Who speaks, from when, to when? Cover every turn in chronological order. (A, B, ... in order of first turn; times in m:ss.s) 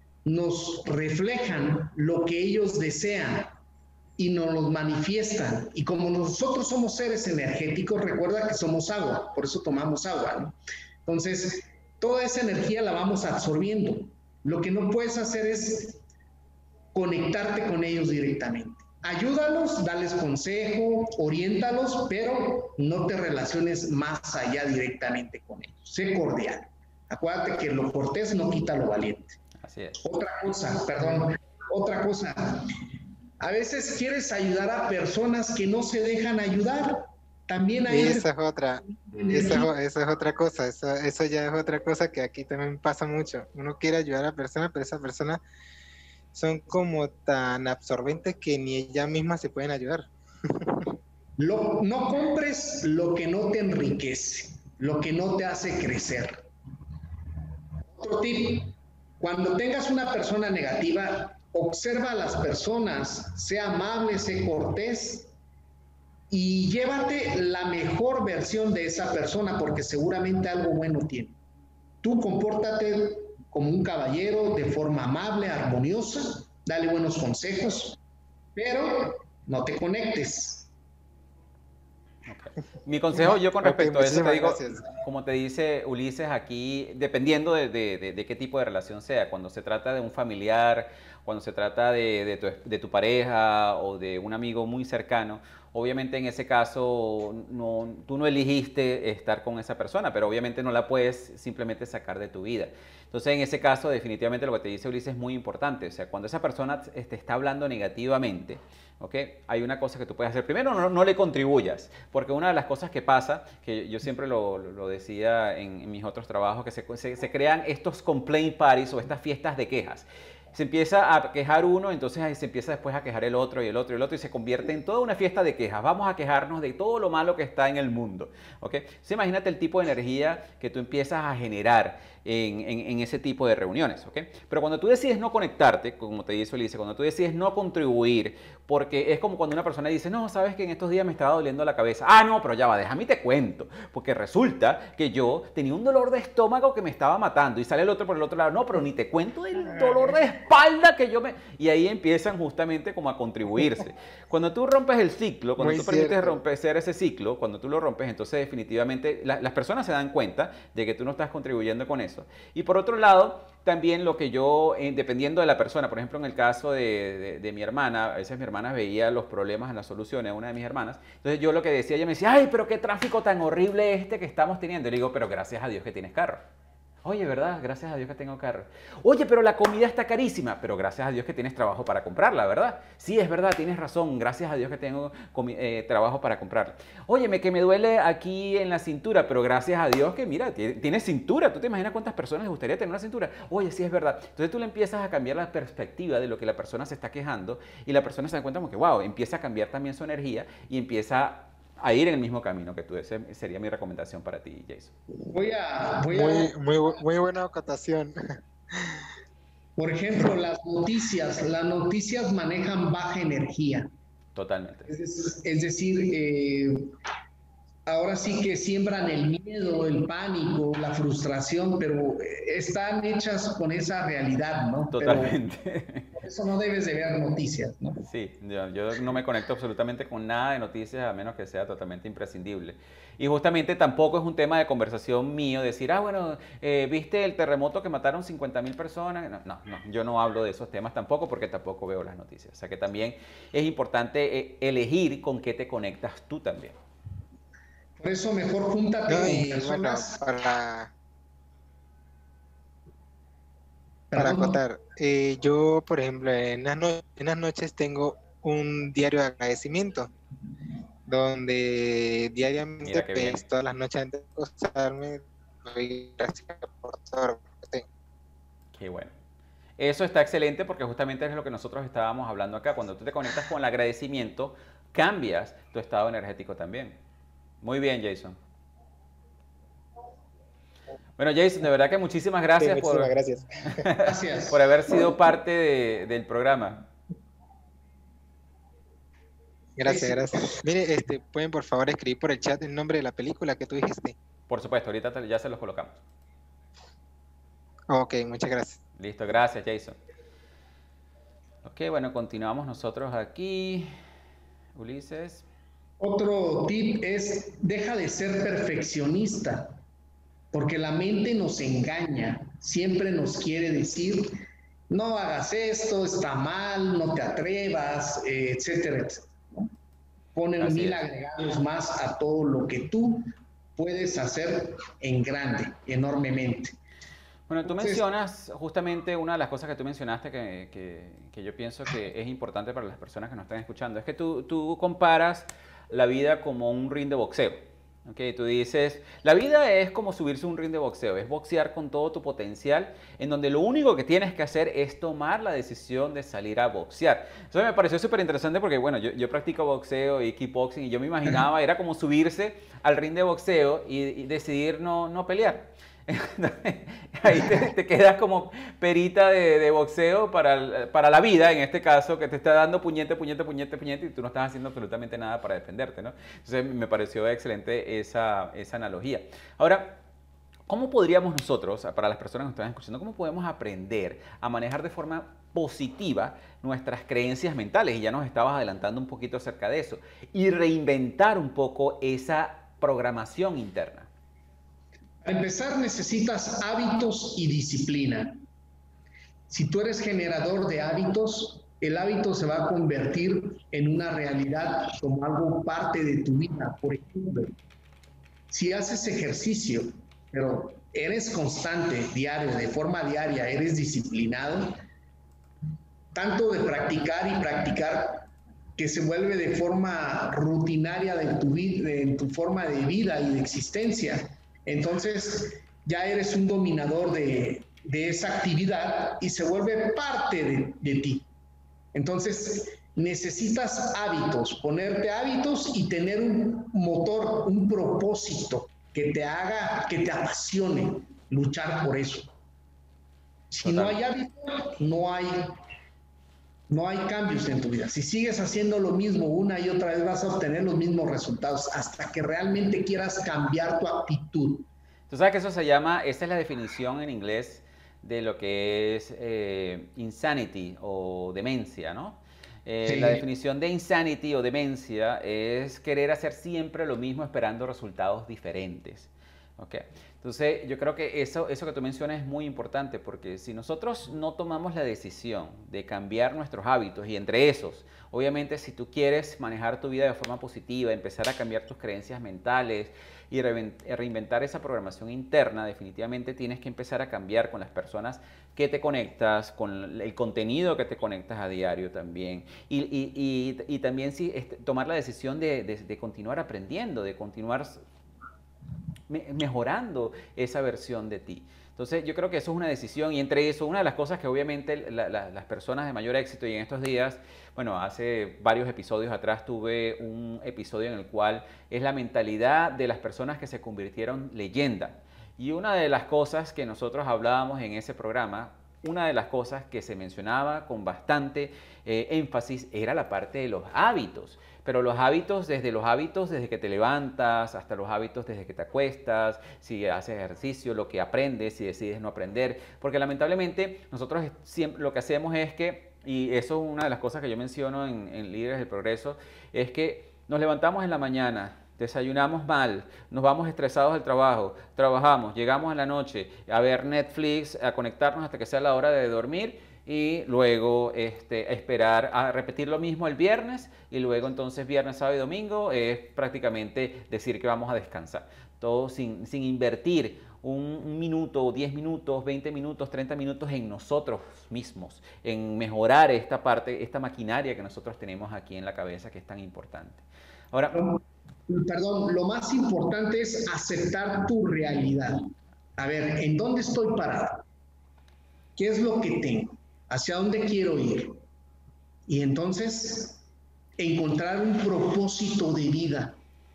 0:00.2-0:03.6 A
0:04.2-0:10.5 A
0:11.0-0:16.0 A
0:16.9-0:29.4 A
0:29.6-0:30.0 B
0:30.0-0:32.7 A
0:33.4-0:38.3 A
0:37.9-0:45.4 C
0:38.8-0:39.7 A
0:46.3-0:50.9 C
0:51.4-0:56.4 A
0:57.9-1:05.3 A
1:06.3-1:11.3 A
1:12.0-1:18.0 A
1:18.6-1:20.7 A
1:22.2-2:56.4 B
1:23.1-1:24.9 C
2:35.6-2:36.4 C
2:57.0-3:24.9 B
3:25.3-3:26.5 A
3:26.1-3:29.0 C
3:29.8-3:33.9 A
3:34.3-3:34.9 B
3:34.9-3:36.9 A
3:37.9-3:45.3 A
3:44.9-3:46.1 B
3:46.1-3:48.1 A
3:48.1-4:06.7 B
4:08.0-4:10.2 A
4:09.1-4:10.9 C
4:14.1-4:14.6 A
4:14.2-4:20.1 C
4:21.1-4:27.8 C
4:22.8-4:23.4 B
4:28.7-4:29.1 B
4:29.8-4:37.0 B
4:37.6-4:38.4 B
4:41.2-4:46.9 B
4:42.6-4:43.8 C
4:44.0-4:44.6 A
4:49.8-4:54.2 C
4:49.8-4:50.2 A
4:54.5-4:56.0 B
4:57.9-4:58.8 C
4:59.0-5:00.0 B
5:01.6-5:03.9 B
5:04.8-5:05.4 B
5:06.0-5:09.8 A
5:10.5-5:14.4 A
5:14.9-5:19.7 A
5:20.3-5:26.8 A
5:20.6-5:21.0 B
5:27.5-6:10.0 B
5:27.6-5:28.0 A
6:10.7-6:24.1 B
6:25.2-6:28.4 A
6:29.5-6:37.5 A
6:38.5-6:44.8 A
6:46.1-7:01.2 A
7:01.9-7:12.3 A
7:13.5-7:15.6 A
7:13.6-7:14.0 B
7:16.7-7:24.7 A
7:25.1-8:07.8 B
7:32.8-7:33.2 A
8:09.1-9:20.7 B
9:20.7-9:27.4 A
9:28.6-9:31.2 A
9:32.1-9:33.2 A
9:33.8-9:36.2 A